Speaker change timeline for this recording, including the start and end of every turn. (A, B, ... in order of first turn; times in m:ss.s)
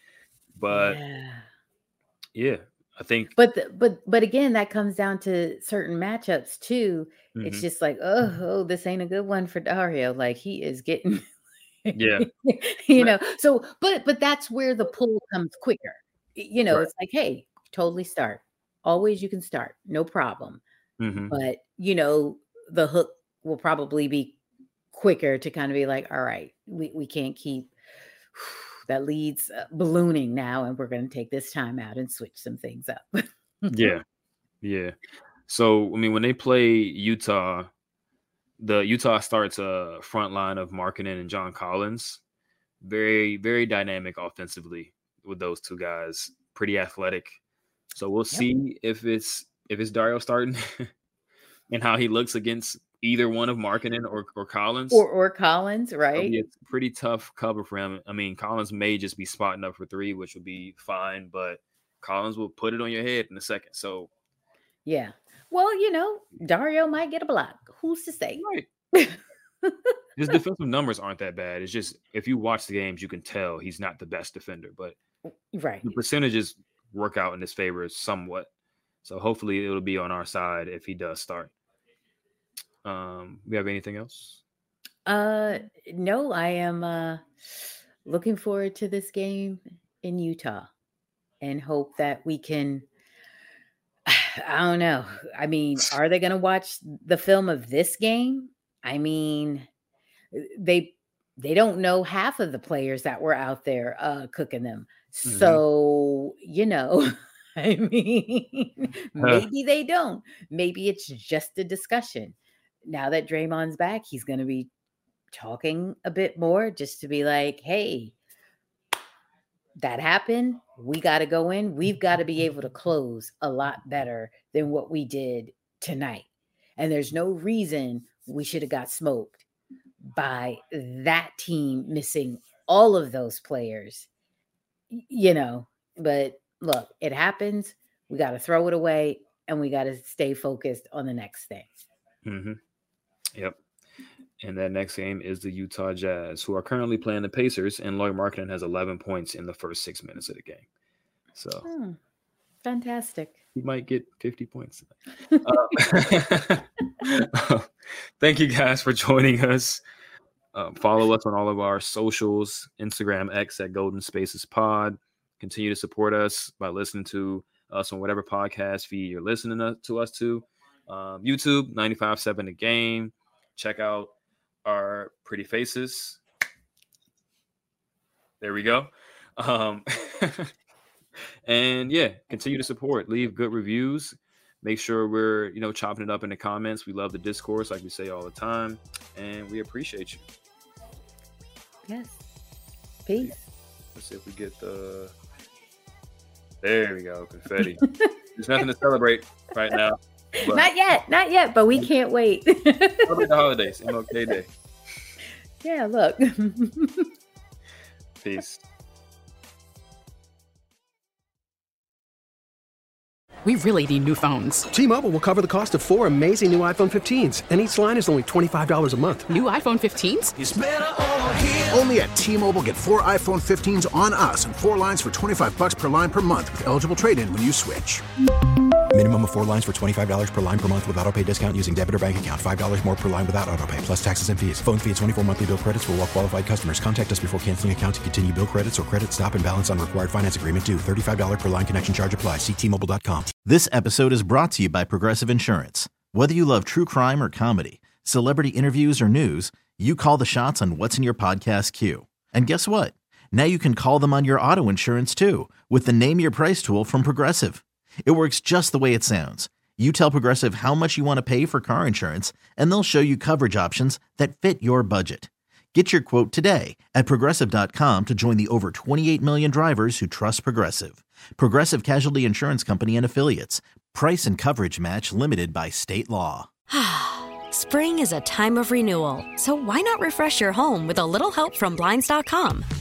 0:00.5-0:01.0 A
0:00.7-0:01.4 B
0:02.3-0:03.3 A
0:03.4-0:11.3 B
0:07.3-0:07.6 A
0:11.8-0:20.6 B
0:11.9-0:12.3 A
0:21.0-0:21.3 A
0:21.3-0:24.4 B
0:24.9-0:27.7 B
0:28.4-0:33.9 B
0:33.7-0:34.0 A
0:34.6-0:35.0 A
0:35.5-0:37.7 A
0:38.6-0:42.2 A
0:42.8-0:47.4 A
0:47.9-0:50.9 A
0:51.7-0:55.0 A
0:54.9-0:56.4 B
0:56.1-1:04.1 A
1:04.8-1:09.9 B
1:08.4-1:08.7 A
1:10.2-1:15.0 A
1:15.2-1:15.8 B
1:15.8-1:18.5 A
1:19.0-1:21.5 A
1:22.8-1:24.4 A
1:25.0-1:27.2 B
1:28.0-1:30.7 B
1:31.4-1:32.8 B
1:34.0-1:39.7 B
1:40.3-1:54.7 B
1:45.2-1:45.6 A
1:49.2-1:49.4 A
1:55.3-1:58.1 B
1:59.8-2:06.2 B
2:06.8-2:09.4 B
2:10.1-2:14.1 B
2:14.9-2:21.7 B
2:22.2-2:22.6 A
2:24.4-2:30.6 A
2:31.3-2:31.7 A
2:31.6-2:32.0 B
2:32.6-2:33.3 B
2:33.5-2:37.7 A
2:38.2-2:39.8 A
2:40.5-2:54.1 A
2:54.6-2:56.2 A
2:58.4-3:00.5 A
3:01.4-3:10.2 A
3:11.9-3:12.2 B
3:13.0-3:13.4 B
3:13.9-3:15.1 A
3:16.6-3:17.8 A
3:17.6-3:18.1 B
3:18.4-3:20.7 A
3:20.4-3:23.2 B
3:23.0-3:24.5 A
3:25.6-3:27.1 B
3:28.2-3:28.6 A
3:33.4-3:34.7 C
3:34.7-3:39.3 D
3:39.3-3:40.4 C
3:40.4-3:40.9 E
3:41.5-3:48.0 E
3:48.9-4:03.3 F
4:03.4-4:36.5 G
4:36.7-4:42.6 H